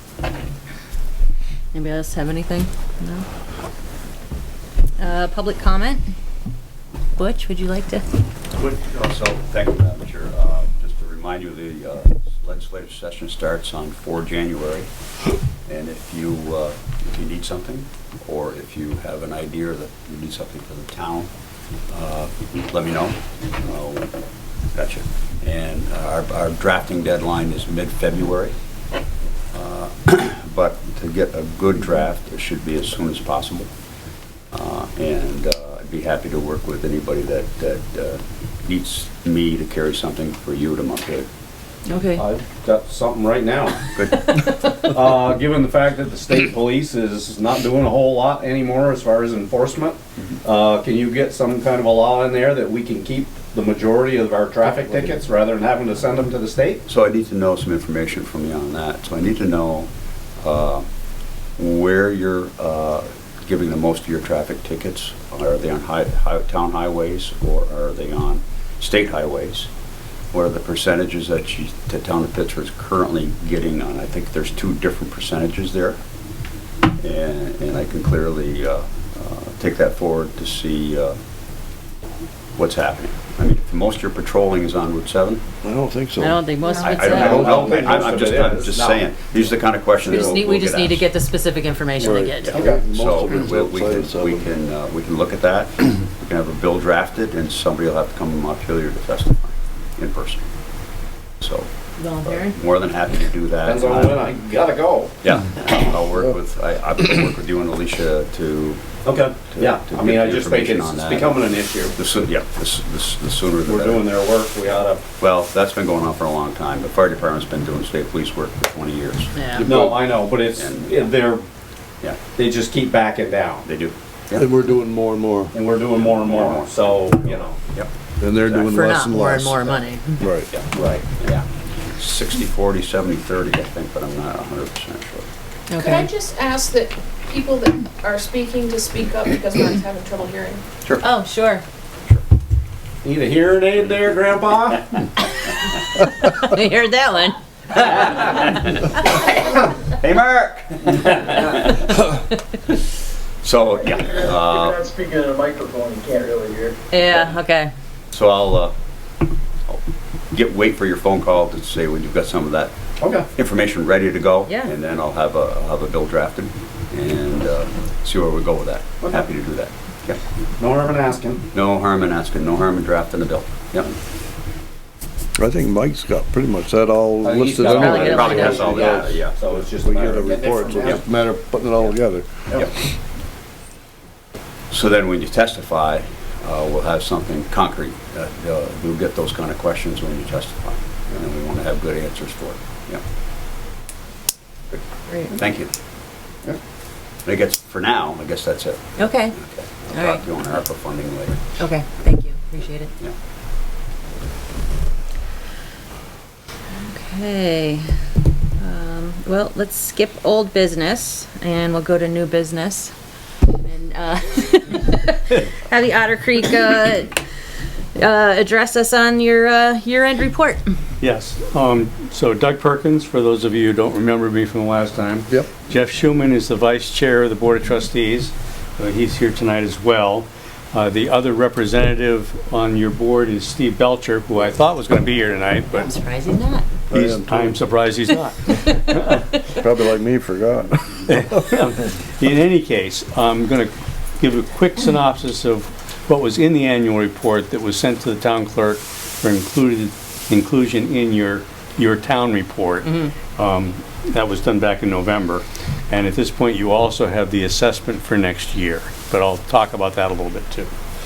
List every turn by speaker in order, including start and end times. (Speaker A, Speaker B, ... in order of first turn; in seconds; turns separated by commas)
Speaker A: 1.7-3.2, Speaker A: 5.0-6.0, Speaker A: 7.2-8.0, Speaker B: 8.7-14.9, Speaker B: 15.7-21.3, Speaker B: 21.9-24.1, Speaker B: 24.7-28.5, Speaker B: 29.5-33.7, Speaker B: 34.5-41.3, Speaker A: 41.9-42.2, Speaker C: 42.2-43.9, Speaker B: 43.9-44.5, Speaker C: 44.7-56.8, Speaker B: 56.9-60.9, Speaker B: 61.6-69.7, Speaker B: 70.3-76.0, Speaker B: 77.0-81.2, Speaker B: 82.5-85.4, Speaker D: 85.6-86.4, Speaker A: 86.2-87.4, Speaker B: 86.8-91.1, Speaker D: 87.1-88.8, Speaker C: 87.2-89.0, Speaker A: 90.0-92.6, Speaker D: 92.0-94.5, Speaker B: 92.4-100.4, Speaker B: 101.4-101.7, Speaker A: 102.0-102.6, Speaker B: 102.2-104.2, Speaker C: 103.7-105.2, Speaker B: 105.2-108.8, Speaker C: 109.0-112.0, Speaker B: 109.5-114.1, Speaker C: 113.7-115.0, Speaker B: 115.2-119.3, Speaker A: 119.3-119.7, Speaker D: 119.5-120.0, Speaker C: 119.6-121.4, Speaker B: 120.5-121.1, Speaker C: 122.3-123.6, Speaker B: 123.6-124.5, Speaker D: 124.3-125.5, Speaker C: 125.5-127.5, Speaker B: 126.0-127.9, Speaker D: 128.2-130.5, Speaker A: 128.7-130.2, Speaker B: 130.5-135.3, Speaker A: 135.7-136.1, Speaker E: 135.8-140.6, Speaker A: 141.0-141.6, Speaker C: 143.0-144.9, Speaker A: 146.0-147.4, Speaker B: 147.7-152.1, Speaker B: 153.4-154.9, Speaker F: 154.3-156.8, Speaker A: 156.9-157.7, Speaker B: 157.0-157.4, Speaker B: 158.1-158.7, Speaker B: 159.7-162.7, Speaker C: 163.0-163.2, Speaker B: 163.3-170.2, Speaker A: 164.4-164.7, Speaker C: 170.6-171.4, Speaker B: 171.5-174.0, Speaker D: 175.4-178.2, Speaker C: 177.2-181.0, Speaker A: 177.7-178.8, Speaker B: 177.9-179.4, Speaker D: 179.8-182.5, Speaker B: 184.7-193.0, Speaker B: 195.3-195.7, Speaker B: 197.2-201.4, Speaker A: 199.0-199.3, Speaker A: 199.9-200.2, Speaker A: 201.6-202.9, Speaker A: 206.8-207.8, Speaker A: 208.6-212.9, Speaker A: 213.5-217.2, Speaker A: 217.9-220.6, Speaker G: 221.0-235.9, Speaker A: 235.8-236.7, Speaker D: 236.9-237.6, Speaker G: 236.9-239.3, Speaker D: 239.5-241.3, Speaker G: 241.1-260.7